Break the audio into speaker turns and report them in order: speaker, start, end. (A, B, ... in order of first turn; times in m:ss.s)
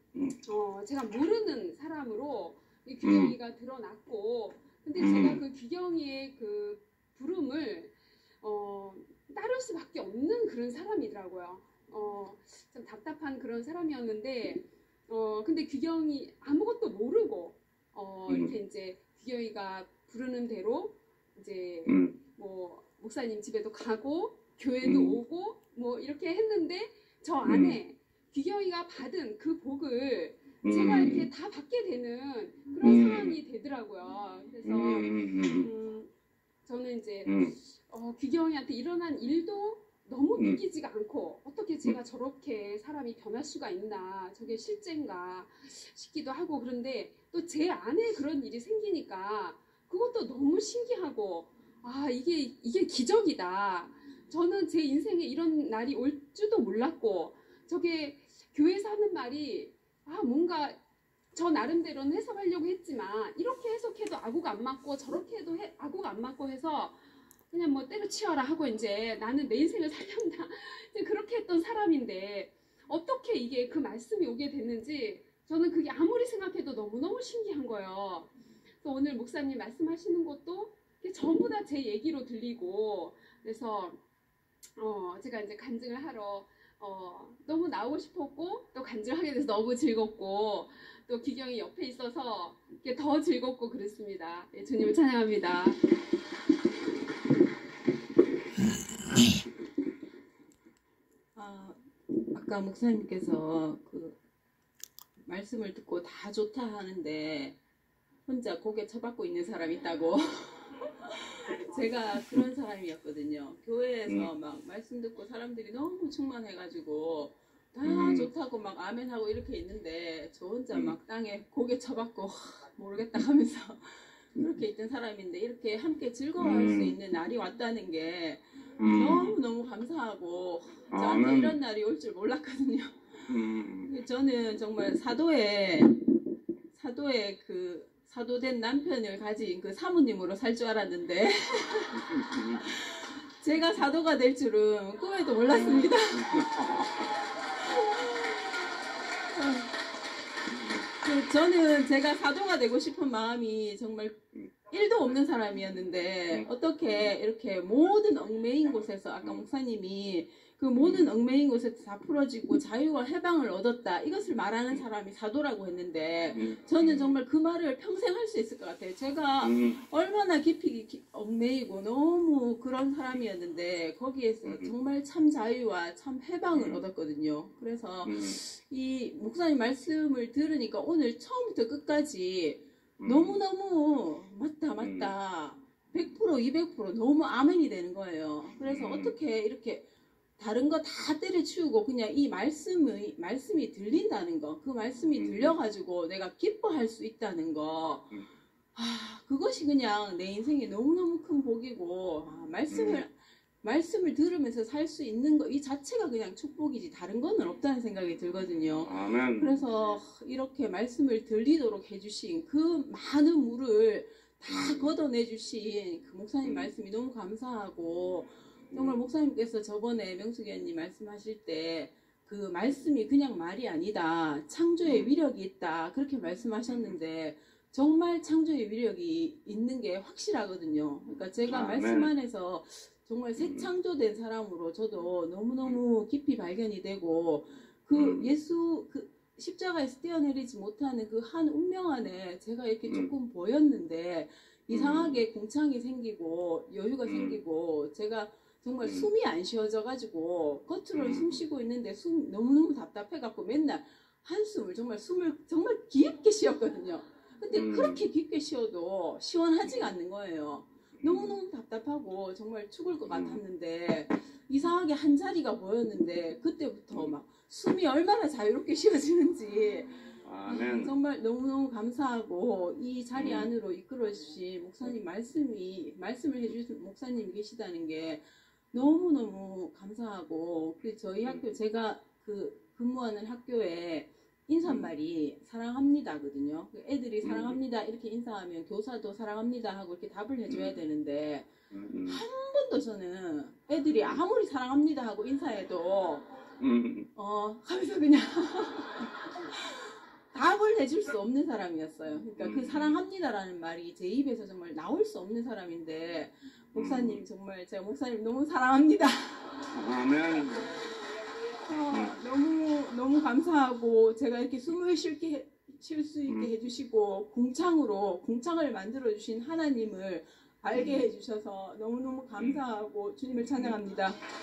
0:00.4-0:36.1 A
0:03.0-0:03.4 B
0:05.0-0:05.4 B
0:18.3-0:18.6 B
0:21.9-0:22.1 B
0:24.8-0:25.2 B
0:27.4-0:27.8 B
0:30.6-0:31.3 B
0:32.8-0:33.4 B
0:34.6-0:35.7 B
0:36.6-1:00.8 A
0:37.2-0:37.6 B
1:01.3-1:07.0 A
1:07.5-1:24.0 A
1:24.8-1:35.8 A
1:41.4-1:41.8 C
1:42.3-1:44.2 C
1:45.2-1:47.6 C
1:48.2-2:16.0 C
1:54.1-1:54.3 B
1:57.8-1:58.3 B
2:06.4-2:07.0 B
2:08.8-2:09.4 B
2:10.9-2:11.6 B
2:13.3-2:13.9 B
2:16.7-2:22.0 C
2:21.9-2:22.7 B
2:22.6-2:26.5 C
2:25.5-2:27.1 B
2:27.6-2:28.4 C
2:29.3-2:29.8 C
2:30.9-3:09.9 C
2:40.8-2:41.1 B
2:46.3-2:47.2 B
2:49.4-2:49.8 B
2:56.5-2:56.8 B
2:58.0-2:58.4 B
3:03.0-3:03.4 B
3:04.8-3:05.1 B
3:08.6-3:09.2 B
3:10.4-3:18.1 C
3:15.2-3:15.6 B
3:18.8-3:23.1 C
3:22.7-3:23.0 B
3:23.6-4:51.5 C
3:28.8-3:29.6 B
3:34.5-3:34.9 B
3:36.4-3:36.7 B
3:38.7-3:39.0 B
3:44.8-3:45.1 B
3:46.7-3:46.9 B
3:51.5-3:52.1 B
3:53.4-3:53.7 B
3:57.9-3:58.3 B
4:02.9-4:03.1 B
4:04.7-4:05.2 B
4:07.0-4:07.4 B
4:08.8-4:09.1 B
4:10.9-4:11.4 B
4:17.5-4:18.1 B
4:21.0-4:21.4 B
4:23.0-4:23.4 B
4:30.2-4:30.9 B
4:33.1-4:33.5 B
4:44.6-4:44.9 B
4:47.2-4:47.6 B
4:50.5-4:50.8 B
4:51.7-4:52.2 B
4:52.1-4:56.4 C
4:56.6-4:57.1 B
4:57.2-5:09.6 C
5:02.4-5:03.0 B
5:06.8-5:07.2 B
5:09.7-5:10.7 B
5:11.6-5:24.2 C
5:11.9-5:12.2 B
5:16.3-5:16.5 B
5:20.7-5:21.1 B